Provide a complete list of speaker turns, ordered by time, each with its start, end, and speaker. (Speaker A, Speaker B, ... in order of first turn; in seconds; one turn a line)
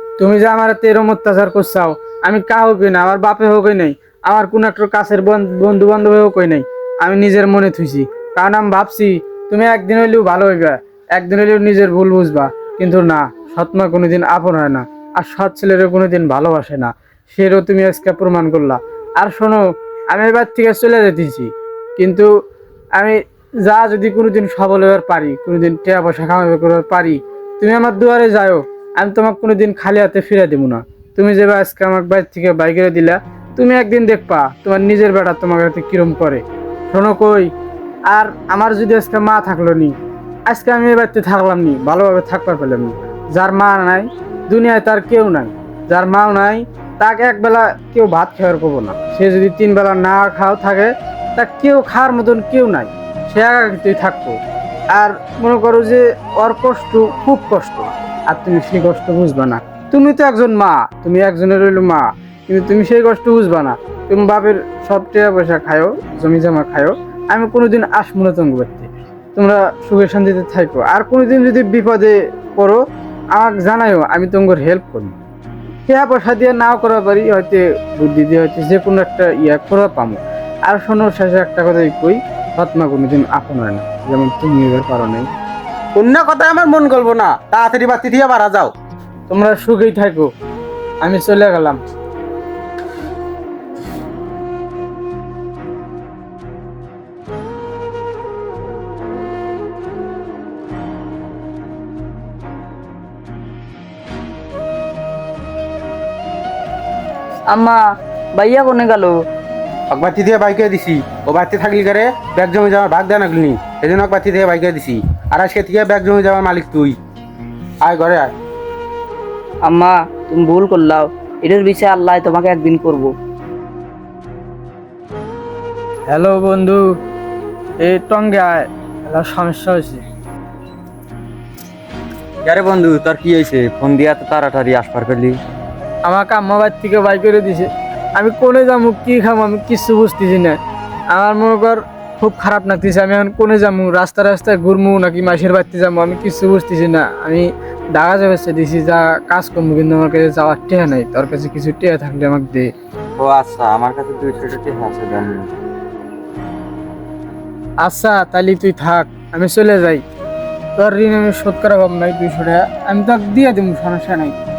Speaker A: 0.2-22.3
Speaker A: 22.9-37.5
Speaker A: 38.1-40.0
Speaker A: 40.5-54.4
Speaker A: 54.9-72.8
Speaker A: 73.3-75.2
Speaker A: 75.8-85.3
Speaker B: 86.0-88.7
Speaker A: 89.3-90.3
Speaker A: 91.0-91.8
Speaker C: 107.5-109.2
Speaker B: 109.9-117.0
Speaker B: 117.8-118.3
Speaker C: 119.7-123.1
Speaker A: 126.1-126.8
Speaker A: 127.8-130.0
Speaker D: 132.4-135.4
Speaker A: 136.1-140.6
Speaker A: 141.1-152.7
Speaker D: 153.2-155.5
Speaker A: 157.8-160.0
Speaker A: 160.8-164.4